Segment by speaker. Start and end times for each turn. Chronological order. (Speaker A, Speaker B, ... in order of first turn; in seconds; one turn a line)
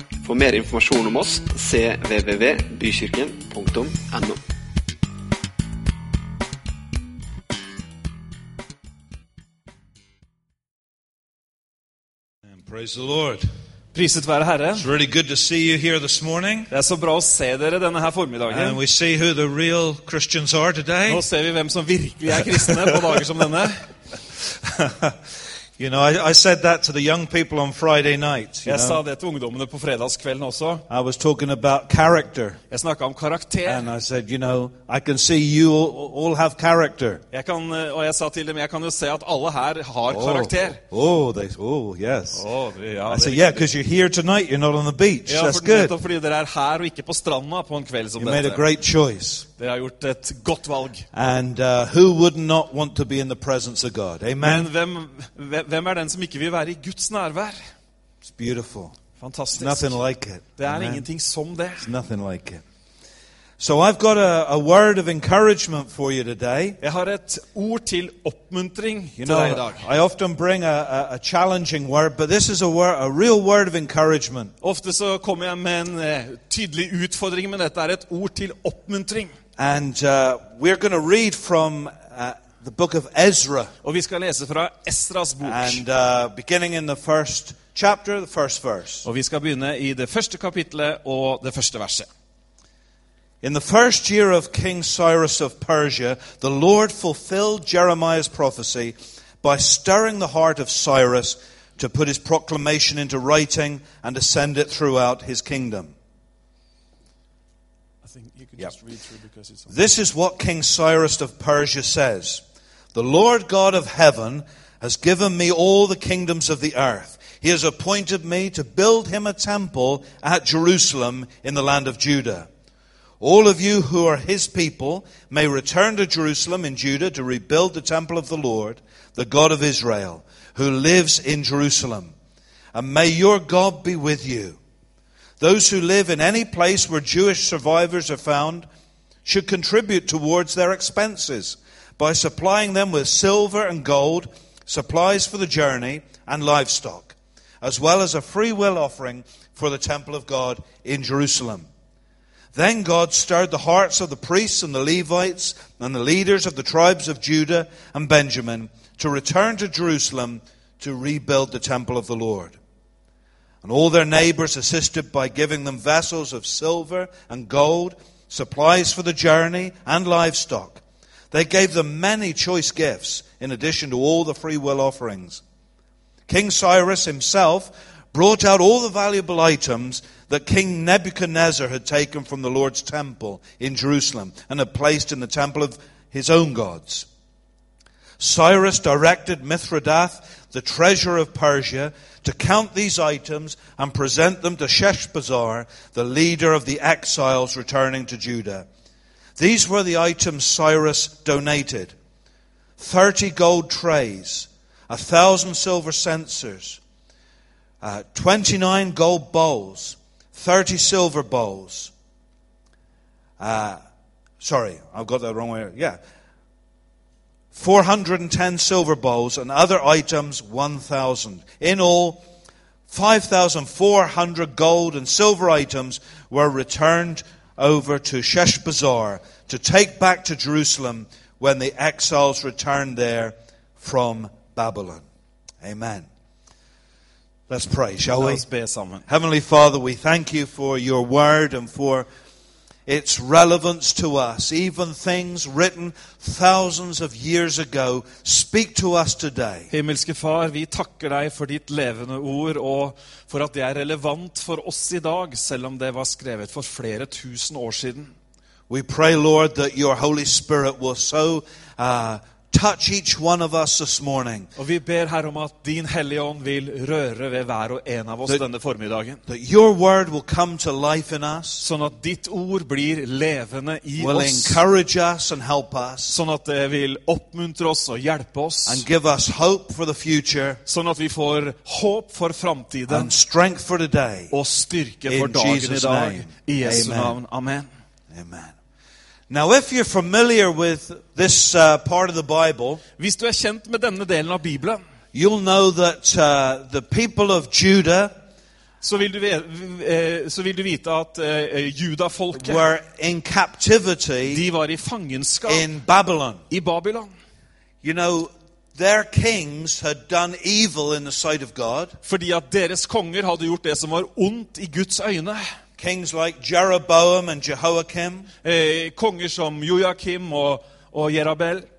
Speaker A: 0.2-4.4
Speaker B: 12.5-13.5
Speaker C: 13.9-14.9
Speaker B: 14.8-16.7
Speaker C: 16.7-18.8
Speaker B: 18.5-21.2
Speaker C: 21.1-23.9
Speaker B: 22.5-23.2
Speaker B: 24.5-25.2
Speaker B: 25.8-29.0
Speaker C: 28.6-30.8
Speaker B: 30.9-32.6
Speaker C: 32.7-33.9
Speaker B: 33.6-37.2
Speaker C: 37.3-40.8
Speaker B: 40.1-42.5
Speaker C: 42.3-43.7
Speaker B: 43.1-45.9
Speaker C: 45.3-48.6
Speaker B: 48.2-49.5
Speaker C: 49.6-51.1
Speaker B: 51.1-54.7
Speaker C: 54.4-57.6
Speaker B: 58.2-59.0
Speaker C: 59.2-60.0
Speaker B: 59.6-61.1
Speaker C: 60.6-61.9
Speaker B: 61.8-62.6
Speaker B: 63.6-66.8
Speaker C: 66.8-69.8
Speaker B: 69.2-74.5
Speaker C: 74.6-79.3
Speaker B: 79.6-83.7
Speaker C: 83.8-85.8
Speaker B: 85.5-89.0
Speaker C: 89.0-92.1
Speaker B: 93.4-106.0
Speaker C: 108.0-109.7
Speaker B: 109.7-112.4
Speaker B: 112.9-122.5
Speaker B: 123.2-132.1
Speaker B: 132.7-134.6
Speaker B: 135.4-138.7
Speaker B: 139.2-151.7
Speaker B: 152.5-162.6
Speaker B: 163.6-175.4
Speaker B: 176.3-187.1
Speaker B: 188.2-198.7
Speaker B: 199.4-201.9
Speaker B: 202.8-206.8
Speaker B: 207.8-211.9
Speaker B: 213.4-213.8
Speaker B: 214.4-216.0
Speaker B: 217.5-222.2
Speaker B: 222.9-235.1
Speaker B: 235.6-236.1
Speaker B: 237.5-238.4
Speaker C: 238.1-239.1
Speaker B: 239.1-242.1
Speaker B: 242.9-249.7
Speaker C: 249.7-258.1
Speaker B: 258.7-264.5
Speaker C: 264.6-269.2
Speaker B: 269.3-271.6
Speaker C: 271.6-274.6
Speaker B: 274.0-276.2
Speaker C: 276.1-278.9
Speaker B: 278.7-280.6
Speaker C: 280.7-283.1
Speaker B: 282.9-284.3
Speaker C: 284.3-287.7
Speaker B: 285.1-287.2
Speaker B: 288.1-288.6
Speaker B: 289.3-292.8
Speaker C: 293.0-294.8
Speaker B: 295.1-298.1
Speaker C: 298.8-302.7
Speaker B: 302.3-304.4
Speaker C: 304.3-305.7
Speaker B: 305.5-306.4
Speaker C: 306.5-307.1
Speaker B: 307.8-312.0
Speaker C: 312.0-315.5
Speaker B: 315.8-318.3
Speaker C: 318.4-321.7